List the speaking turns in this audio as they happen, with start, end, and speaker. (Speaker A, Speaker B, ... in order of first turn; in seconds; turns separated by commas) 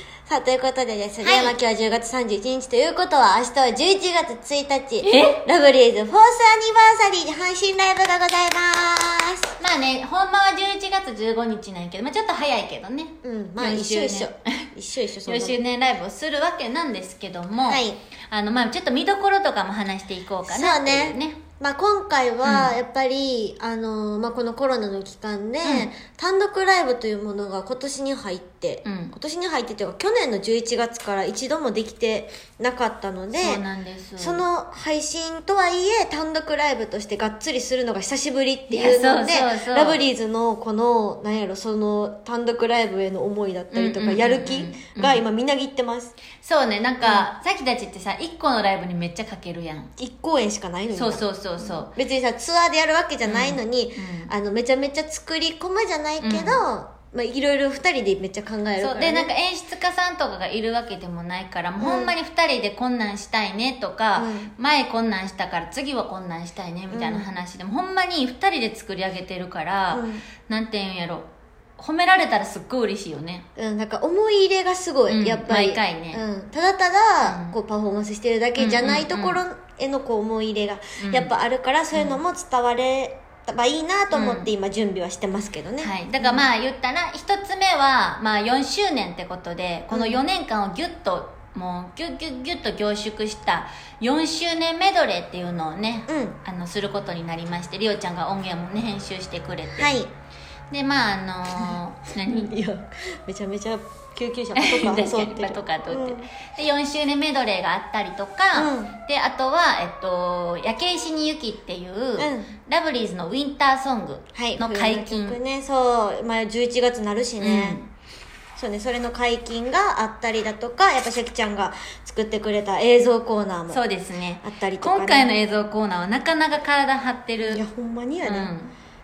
Speaker A: 0.3-9.5, Speaker B: 1.2-1.5, Speaker B: 5.0-5.4, Speaker B: 9.6-14.4, Speaker A: 13.2-15.6, Speaker B: 15.2-21.4, Speaker A: 17.6-18.0, Speaker A: 20.5-33.6, Speaker B: 22.4-22.7, Speaker B: 25.6-25.9, Speaker B: 28.8-29.1, Speaker B: 33.3-34.4, Speaker A: 34.2-46.1, Speaker B: 38.7-40.0, Speaker B: 43.7-45.2, Speaker B: 46.4-49.9, Speaker A: 47.0-47.2, Speaker A: 50.0-59.3, Speaker B: 50.9-51.9, Speaker B: 53.2-54.3, Speaker B: 56.2-56.6, Speaker B: 58.8-73.5, Speaker A: 61.8-62.1, Speaker A: 64.2-64.5, Speaker A: 66.9-67.3, Speaker A: 69.9-70.2, Speaker A: 73.6-86.4, Speaker B: 75.1-76.2, Speaker B: 77.2-77.5, Speaker B: 78.5-79.4, Speaker B: 81.0-81.3, Speaker B: 81.9-82.2, Speaker B: 84.1-84.5, Speaker B: 85.8-99.9, Speaker A: 89.9-90.2, Speaker A: 96.1-96.4, Speaker A: 99.8-100.1, Speaker B: 100.7-102.5, Speaker A: 102.3-106.3, Speaker B: 104.5-115.4, Speaker A: 108.5-109.0, Speaker A: 112.2-112.5, Speaker A: 114.3-117.8, Speaker B: 117.4-117.9, Speaker A: 118.5-123.8, Speaker B: 123.7-127.6, Speaker A: 124.4-125.3, Speaker A: 127.5-128.5, Speaker B: 128.2-128.7